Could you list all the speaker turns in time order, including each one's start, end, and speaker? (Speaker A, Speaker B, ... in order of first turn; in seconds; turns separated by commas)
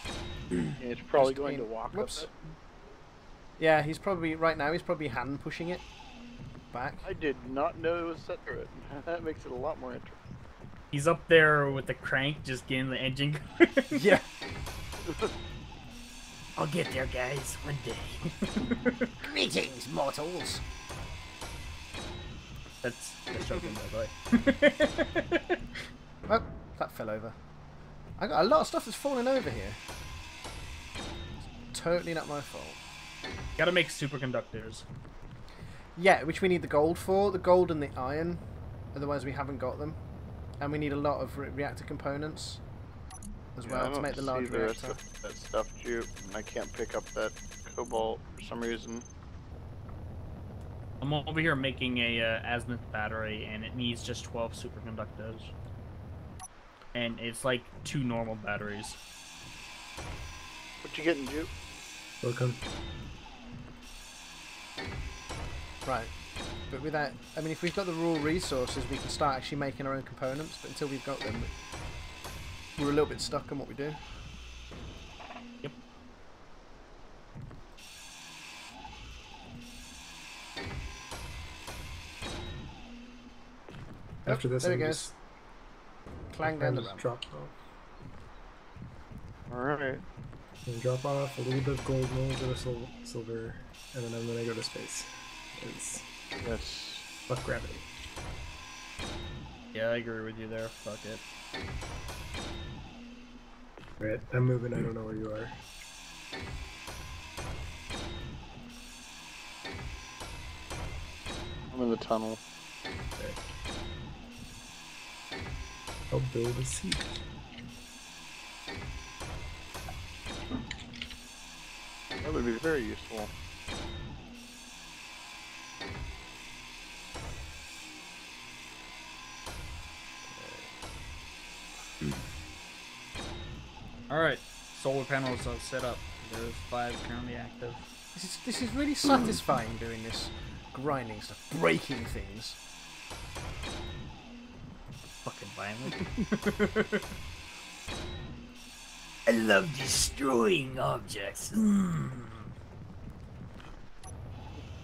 Speaker A: 0.8-2.3, Speaker B: 1.2-2.3, Speaker B: 3.6-5.8, Speaker B: 6.7-7.1, Speaker A: 7.0-10.3, Speaker C: 10.9-14.0, Speaker B: 13.9-14.2, Speaker A: 15.1-15.3, Speaker C: 16.6-19.1, Speaker B: 19.2-20.6, Speaker C: 22.8-25.6, Speaker A: 23.4-23.7, Speaker B: 26.2-27.4, Speaker B: 28.2-29.8, Speaker B: 31.7-32.8, Speaker C: 33.6-34.9, Speaker B: 36.0-38.4, Speaker B: 38.9-40.0, Speaker B: 40.6-42.6, Speaker B: 43.6-45.0, Speaker A: 43.6-49.0, Speaker C: 51.0-55.5, Speaker C: 56.9-59.0, Speaker A: 60.8-61.5, Speaker D: 62.2-62.6, Speaker B: 65.8-66.1, Speaker B: 66.7-71.5, Speaker B: 72.8-74.0, Speaker D: 84.2-85.1, Speaker B: 84.3-85.1, Speaker B: 86.3-87.1, Speaker D: 86.4-87.5, Speaker A: 89.5-90.0, Speaker D: 90.6-96.1, Speaker A: 96.4-97.1, Speaker D: 97.3-97.9, Speaker C: 99.7-101.2, Speaker D: 104.0-105.6, Speaker A: 111.7-112.4, Speaker D: 116.1-117.2, Speaker A: 122.2-123.3, Speaker B: 130.3-130.7, Speaker C: 134.1-137.9, Speaker B: 138.1-142.6, Speaker C: 145.2-147.1, Speaker C: 149.3-152.5